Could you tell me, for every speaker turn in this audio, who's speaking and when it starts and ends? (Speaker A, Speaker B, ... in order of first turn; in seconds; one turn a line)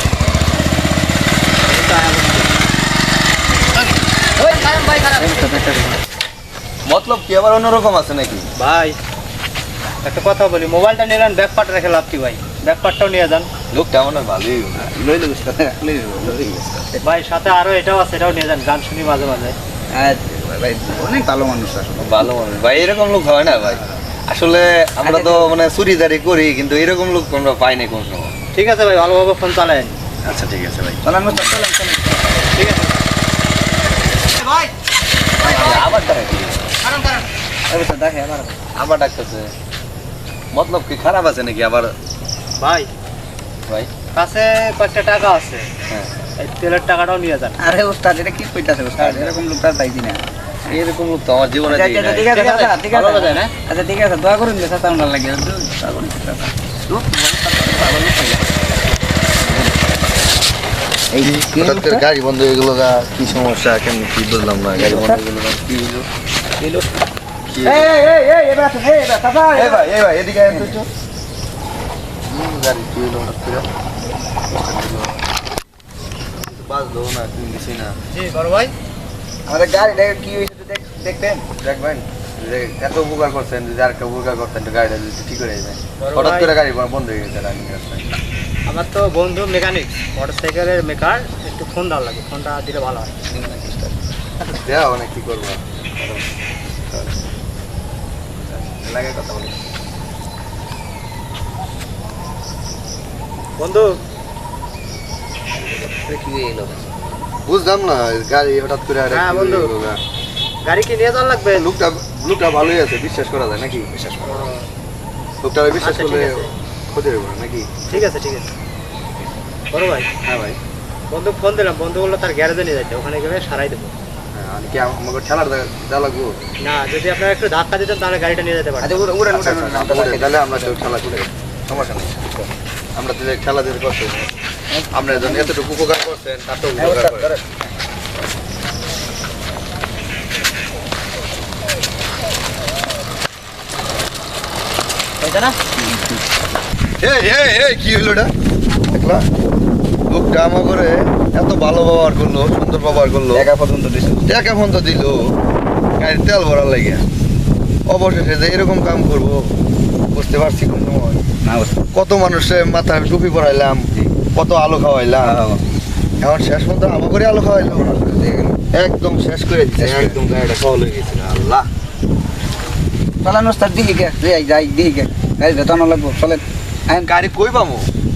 Speaker A: 1.6-2.5
Speaker A: 4.4-5.3
Speaker B: 5.1-6.0
Speaker C: 6.9-8.5
Speaker A: 8.6-9.0
Speaker A: 10.0-13.5
Speaker C: 13.7-14.9
Speaker B: 14.8-17.0
Speaker A: 17.0-19.6
Speaker B: 19.9-22.3
Speaker C: 22.0-28.3
Speaker B: 25.0-25.5
Speaker A: 28.5-29.9
Speaker C: 30.2-31.6
Speaker B: 31.0-32.4
Speaker A: 32.5-33.0
Speaker A: 34.4-34.7
Speaker C: 35.4-36.7
Speaker A: 35.5-35.8
Speaker A: 36.8-37.2
Speaker B: 37.7-38.6
Speaker C: 38.8-39.5
Speaker C: 40.5-41.9
Speaker A: 42.6-42.9
Speaker A: 44.1-45.7
Speaker A: 46.4-47.6
Speaker B: 47.6-50.8
Speaker C: 49.0-49.4
Speaker C: 50.7-52.3
Speaker B: 51.6-56.5
Speaker A: 52.3-53.5
Speaker C: 56.9-58.4
Speaker B: 57.5-58.4
Speaker B: 59.4-59.8
Speaker B: 61.1-62.0
Speaker C: 61.2-66.1
Speaker B: 64.7-65.2
Speaker B: 66.6-66.9
Speaker C: 67.5-67.9
Speaker B: 67.6-69.9
Speaker C: 69.5-70.9
Speaker B: 70.5-70.8
Speaker C: 72.3-73.7
Speaker C: 74.5-75.2
Speaker C: 76.4-77.9
Speaker A: 78.1-78.7
Speaker B: 79.5-81.5
Speaker C: 81.6-88.2
Speaker A: 86.0-86.5
Speaker A: 88.7-93.1
Speaker B: 93.3-94.0
Speaker C: 94.4-96.2
Speaker C: 98.9-99.4
Speaker B: 98.9-99.2
Speaker A: 103.6-103.9
Speaker B: 105.6-106.9
Speaker C: 107.5-110.0
Speaker A: 109.1-109.7
Speaker A: 110.6-111.7
Speaker C: 111.5-114.5
Speaker A: 114.2-114.7
Speaker C: 115.4-118.0
Speaker A: 115.8-116.5
Speaker A: 117.9-118.5
Speaker A: 119.7-120.1
Speaker C: 120.2-120.6
Speaker A: 121.1-123.9
Speaker C: 124.3-126.4
Speaker A: 126.6-129.1
Speaker B: 128.8-130.9
Speaker C: 129.3-132.3
Speaker C: 132.9-134.3
Speaker B: 134.7-135.5
Speaker C: 134.9-137.3
Speaker B: 136.8-137.4
Speaker A: 145.2-145.6
Speaker B: 145.8-146.1
Speaker C: 147.0-148.3
Speaker C: 148.9-149.2
Speaker C: 150.1-153.5
Speaker B: 153.3-154.3
Speaker C: 154.2-155.2
Speaker C: 156.0-157.0
Speaker C: 157.9-159.5
Speaker C: 160.1-161.2
Speaker B: 161.4-161.8
Speaker C: 161.9-165.6
Speaker C: 166.2-168.0
Speaker B: 167.7-168.6
Speaker C: 168.7-171.7
Speaker B: 169.8-170.2
Speaker B: 173.2-177.1
Speaker C: 177.1-177.9